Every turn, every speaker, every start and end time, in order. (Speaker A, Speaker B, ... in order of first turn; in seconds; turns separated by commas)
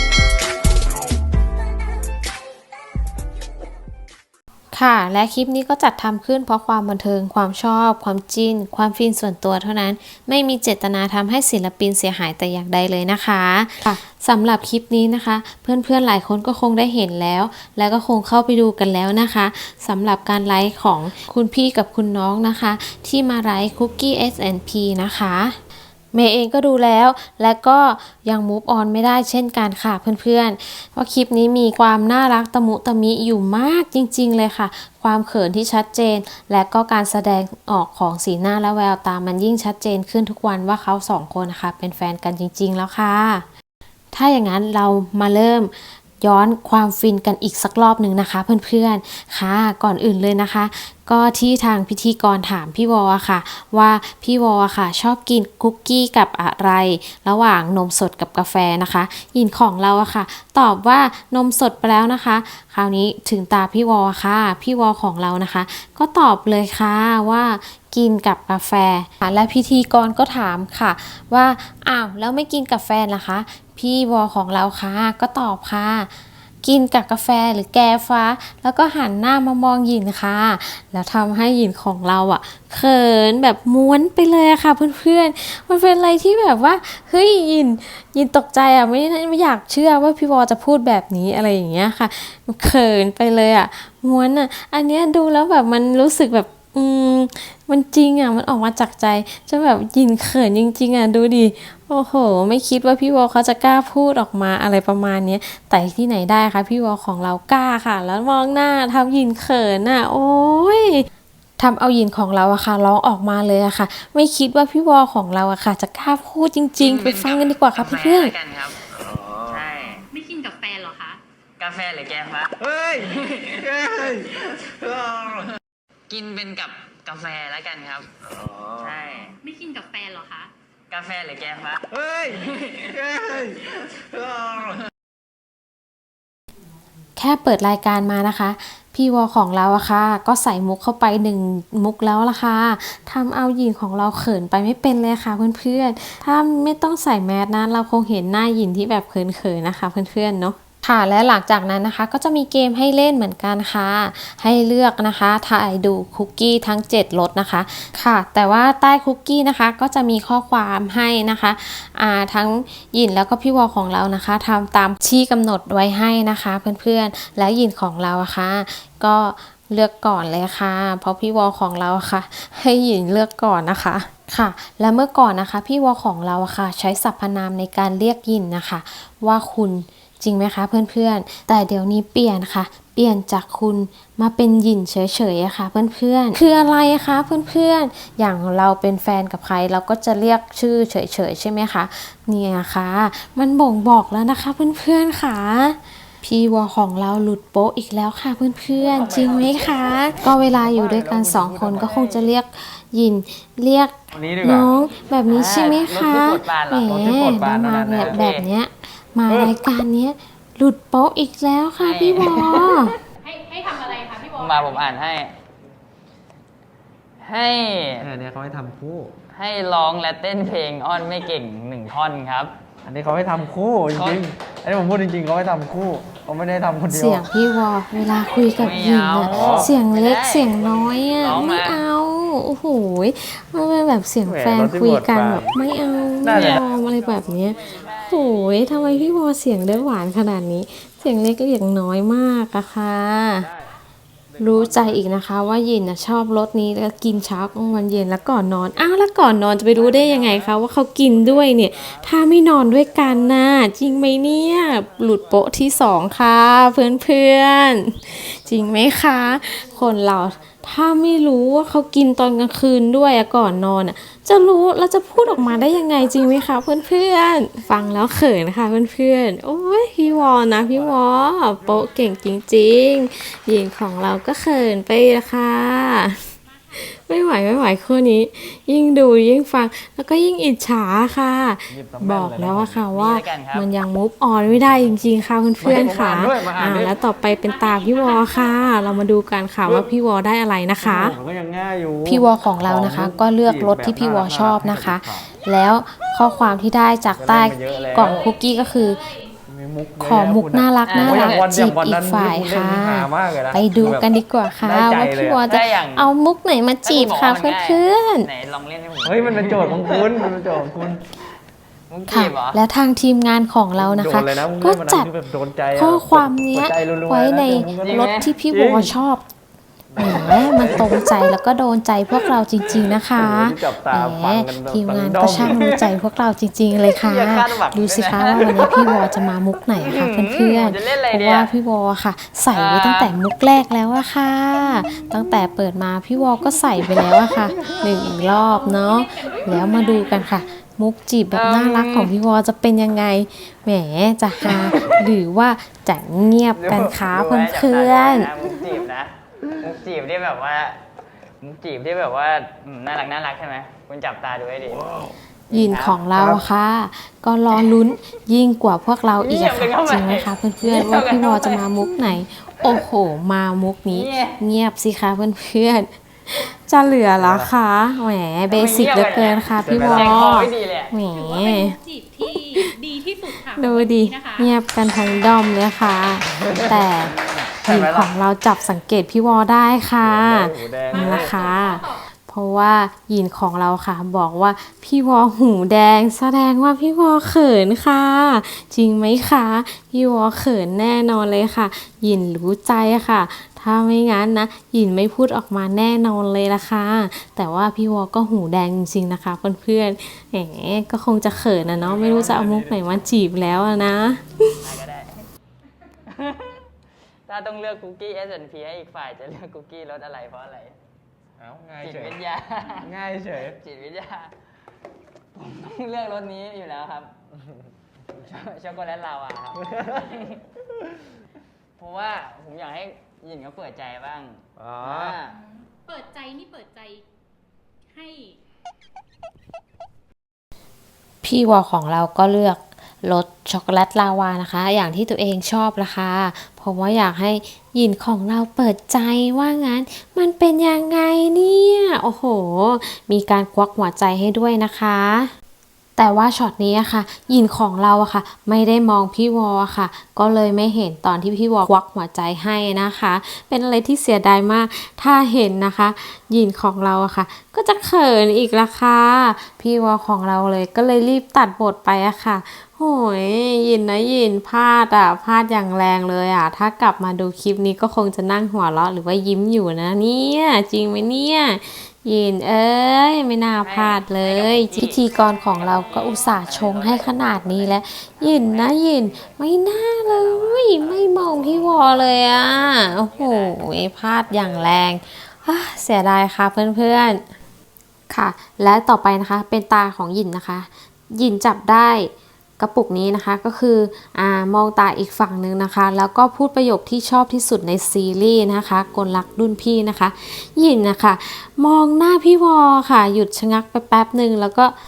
Speaker A: 4.7-25.6, Speaker A: 26.1-43.4, Speaker A: 44.1-76.1, Speaker A: 76.6-111.0, Speaker A: 111.6-118.3, Speaker B: 116.8-118.8, Speaker C: 119.1-119.4, Speaker B: 119.5-120.0, Speaker D: 120.1-121.2, Speaker B: 121.6-122.6, Speaker C: 122.6-125.5, Speaker B: 123.2-123.6, Speaker B: 126.1-128.1, Speaker B: 128.7-129.4, Speaker D: 129.4-130.5, Speaker B: 130.9-131.9, Speaker C: 131.9-134.7, Speaker A: 137.2-213.0, Speaker C: 199.1-199.6, Speaker B: 199.2-199.6, Speaker C: 200.2-201.9, Speaker B: 201.8-202.3, Speaker C: 204.1-204.7, Speaker B: 205.3-207.1, Speaker C: 206.9-208.2, Speaker B: 207.9-208.5, Speaker C: 209.3-209.7, Speaker B: 211.8-212.9, Speaker D: 213.2-214.9, Speaker B: 214.3-215.3, Speaker B: 217.2-218.1, Speaker C: 218.0-219.1, Speaker B: 219.3-222.5, Speaker C: 222.8-227.3, Speaker B: 223.9-224.2, Speaker A: 226.9-243.5, Speaker B: 228.5-231.9, Speaker C: 229.3-229.7, Speaker C: 234.2-235.6, Speaker C: 236.2-236.6, Speaker B: 236.3-240.0, Speaker C: 243.4-243.7, Speaker C: 244.3-245.2, Speaker A: 244.4-291.1, Speaker C: 249.7-250.6, Speaker C: 251.1-252.7, Speaker C: 253.3-253.7, Speaker C: 265.4-265.7, Speaker C: 270.1-271.9, Speaker C: 281.7-282.9, Speaker B: 282.9-283.7, Speaker C: 284.4-285.0, Speaker C: 285.6-287.0, Speaker D: 287.9-288.3, Speaker C: 289.6-289.9, Speaker C: 290.8-295.3, Speaker A: 292.0-299.1, Speaker C: 297.1-298.3, Speaker D: 297.9-298.3, Speaker C: 299.5-305.4, Speaker A: 300.0-308.3, Speaker B: 300.8-301.5, Speaker B: 305.4-306.1, Speaker B: 306.8-310.3, Speaker C: 309.0-311.1, Speaker B: 311.9-312.6, Speaker A: 312.1-315.1, Speaker C: 313.7-319.0, Speaker A: 315.7-319.2, Speaker B: 317.8-318.3, Speaker C: 319.9-321.1, Speaker A: 320.0-348.3, Speaker C: 322.8-325.9, Speaker B: 327.0-329.0, Speaker B: 329.8-331.5, Speaker B: 332.5-333.2, Speaker B: 336.8-337.8, Speaker D: 337.9-340.3, Speaker B: 341.3-342.1, Speaker B: 346.5-350.8, Speaker B: 351.4-354.8, Speaker C: 354.7-355.1, Speaker B: 355.5-356.0, Speaker A: 355.5-372.7, Speaker C: 356.1-356.4, Speaker B: 359.2-362.1, Speaker B: 363.9-364.4, Speaker C: 367.1-367.5, Speaker B: 368.5-370.9, Speaker C: 369.6-370.3, Speaker D: 371.1-374.5, Speaker A: 373.5-404.6, Speaker C: 376.3-376.9, Speaker C: 377.6-378.1, Speaker C: 380.0-381.5, Speaker D: 380.9-382.0, Speaker C: 401.8-403.0, Speaker B: 404.6-405.2, Speaker B: 406.1-406.6, Speaker B: 407.2-410.8, Speaker C: 411.4-412.2, Speaker B: 411.8-412.9, Speaker C: 412.8-413.6, Speaker B: 413.5-414.3, Speaker B: 415.3-417.1, Speaker B: 418.1-420.4, Speaker C: 419.7-420.1, Speaker B: 421.8-425.4, Speaker C: 424.6-425.2, Speaker D: 425.7-427.0, Speaker D: 427.9-428.4, Speaker A: 431.2-445.3, Speaker A: 446.0-487.2, Speaker B: 473.6-479.4, Speaker B: 479.9-485.0, Speaker A: 488.1-504.7